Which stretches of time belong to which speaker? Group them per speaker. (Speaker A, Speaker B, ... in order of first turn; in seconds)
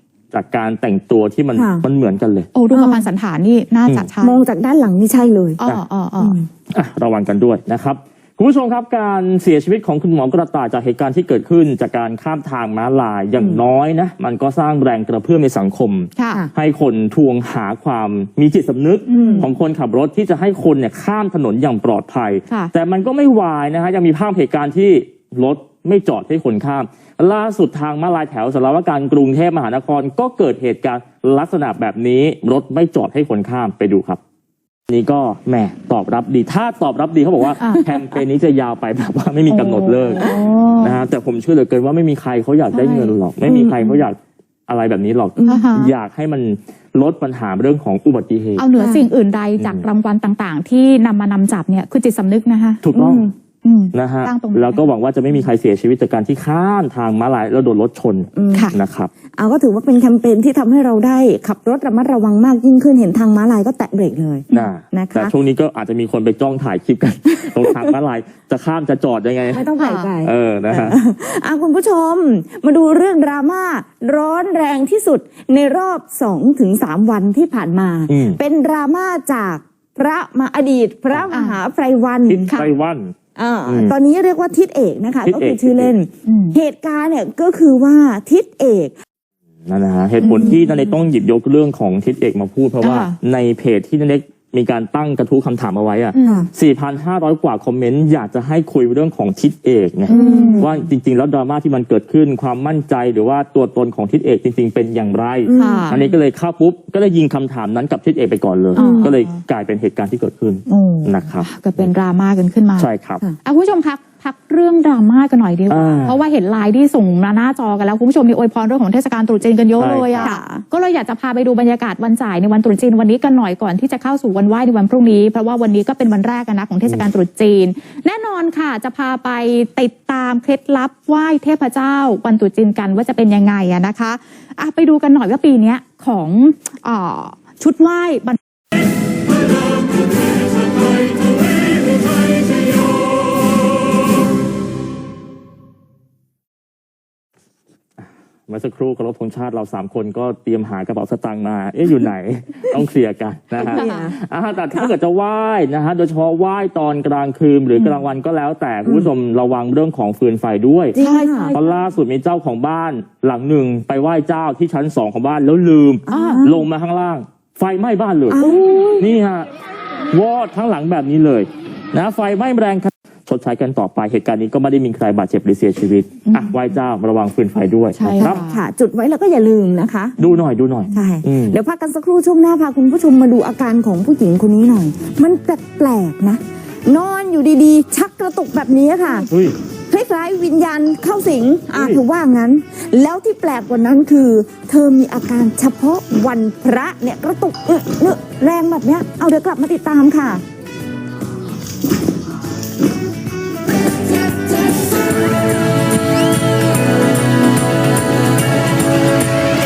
Speaker A: 0.3-2.5, 6.7-34.2, 34.9-48.7, 49.6-49.9, 52.8-53.2, 53.9-59.1, 64.5-69.7, 70.2-71.0, 78.1-78.4, 82.3-83.1, 83.7-84.0, 85.3-85.9, 89.7-111.9, 112.8-113.2, 115.7-116.2, 119.8-120.3, 148.5-161.0, 161.5-169.5, 170.1-178.4, 180.2-181.6, 189.3-189.6, 191.7-192.0
Speaker B: 1.5-1.9, 2.7-3.1, 4.2-5.6, 6.2-6.5, 13.4-13.6, 19.2-19.5, 43.4-44.0, 45.4-45.7, 48.8-49.1, 53.0-53.3, 58.3-58.7, 59.4-65.3, 67.6-67.9, 69.5-82.5, 83.3-89.0, 90.3-90.6, 100.1-100.7, 105.5-106.0, 108.8-109.1, 120.2-120.4, 153.6-154.1, 158.8-159.1, 160.9-161.6, 166.1-166.6, 168.3-169.1, 178.2-180.2, 180.9-189.3, 189.9-200.4
Speaker C: 2.5-4.4, 5.6-6.4, 16.2-16.4, 19.1-19.5, 37.6-38.2, 39.5-41.0, 42.7-43.1, 45.5-45.9, 48.6-54.8, 69.8-70.1, 81.3-81.6, 86.2-86.6, 90.3-90.7, 92.8-93.2, 96.1-96.5, 100.1-100.7, 105.6-106.1, 108.7-109.4, 110.7-112.9, 113.4-138.4, 153.6-154.1, 161.0-161.6, 166.1-166.4, 176.3-176.6, 178.0-178.6